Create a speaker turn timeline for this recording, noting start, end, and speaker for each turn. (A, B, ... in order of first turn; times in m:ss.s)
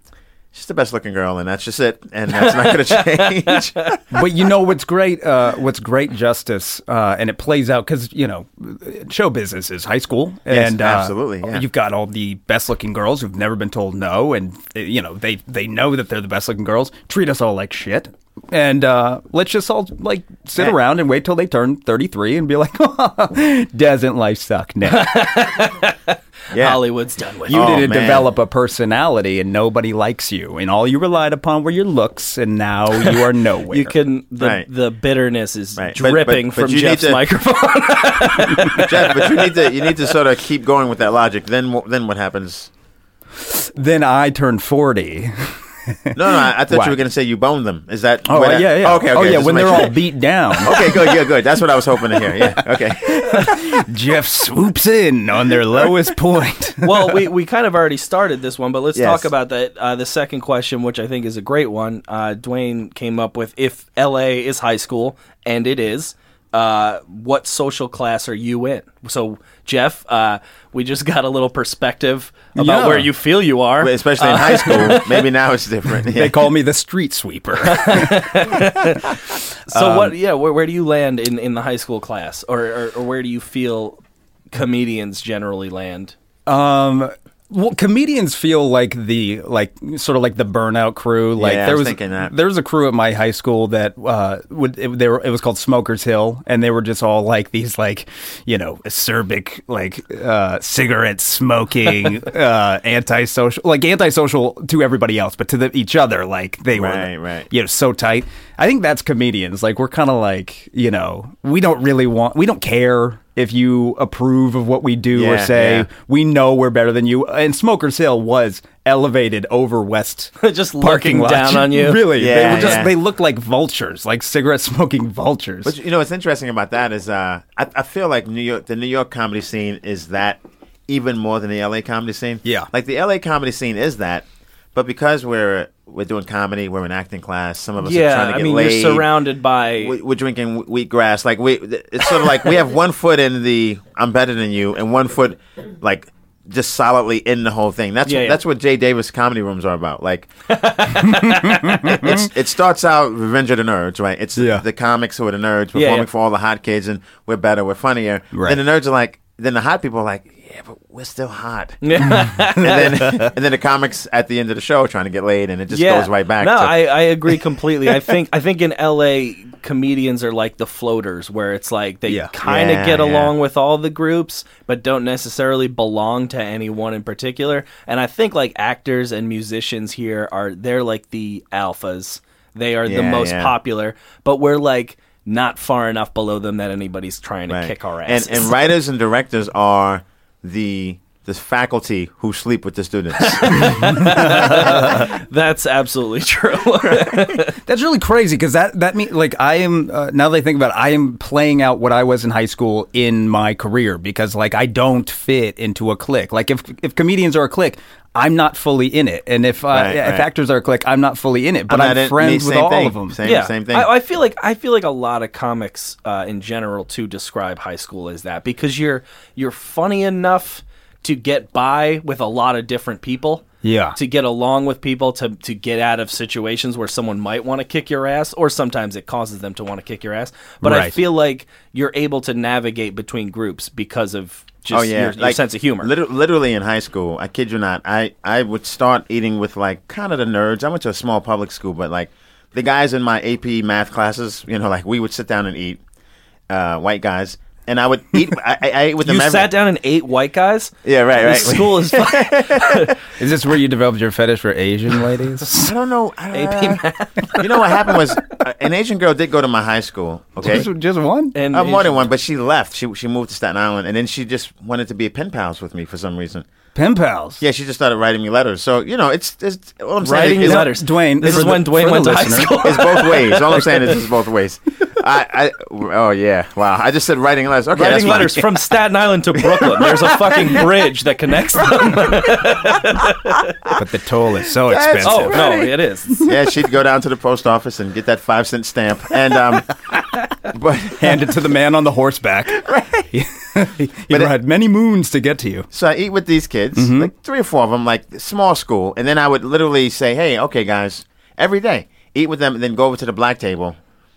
0:00.5-0:04.0 A
0:02.3-0:04.0 B
0:04.1-0:25.2 C
0:10.5-0:11.6 A
0:24.9-0:27.8 B
0:26.5-0:26.8 A
0:27.5-0:28.3 A
0:27.5-0:34.0 C
0:33.0-0:39.9 B
0:34.4-0:34.7 A
0:35.8-0:37.2 A
0:38.7-0:42.7 A
0:43.4-0:47.0 C
0:46.1-0:50.0 A
0:48.3-0:51.4 C
0:50.6-0:53.6 A
0:52.1-0:57.2 C
0:56.8-1:15.3 B
0:59.0-0:59.3 A
1:12.6-1:13.1 C
1:13.8-1:16.4 A
1:16.1-1:19.0 C
1:17.6-1:24.0 B
1:19.7-1:20.2 C
1:24.5-1:26.2 B
1:26.5-2:05.8 C
1:31.4-1:32.3 A
1:46.8-1:47.5 A
1:55.1-1:55.9 A
2:00.4-2:02.1 B
2:02.1-2:03.0 A
2:05.6-2:19.1 A
2:17.8-2:20.0 B
2:19.8-2:30.3 A
2:28.0-2:28.4 B
2:30.5-2:32.0 B
2:31.1-2:32.3 C
2:31.8-2:46.9 A
2:34.4-2:34.6 C
2:35.8-2:36.1 B
2:38.3-2:38.6 C
2:41.8-2:43.2 B
2:45.7-3:08.5 B
2:52.4-2:53.3 A
3:02.9-3:03.5 A
3:07.5-3:14.4 A
3:13.2-3:17.6 B
3:13.6-3:15.1 C
3:17.6-3:33.2 C
3:29.7-3:30.3 A
3:31.7-3:33.9 A
3:33.2-3:55.9 B
3:43.6-3:44.0 C
3:50.6-3:51.0 C
3:54.7-4:05.8 A
4:06.5-4:09.5 A
4:09.0-4:13.0 B
4:10.8-4:13.0 A
4:13.2-4:15.7 C
4:15.5-4:20.7 A
4:16.3-4:17.7 B
4:20.4-4:21.4 C
4:21.3-4:22.1 B
4:21.5-4:26.5 A
4:26.8-4:27.4 C
4:27.4-4:30.7 A
4:30.0-4:34.0 B
4:30.2-4:32.7 C
4:32.6-4:38.5 A
4:37.8-4:43.5 B
4:39.6-4:40.4 A
4:43.8-4:45.6 C
4:44.6-4:51.3 A
4:45.0-4:46.2 B
4:51.0-4:55.7 C
4:52.5-4:53.1 A
4:55.7-5:03.8 A
4:56.8-4:57.1 C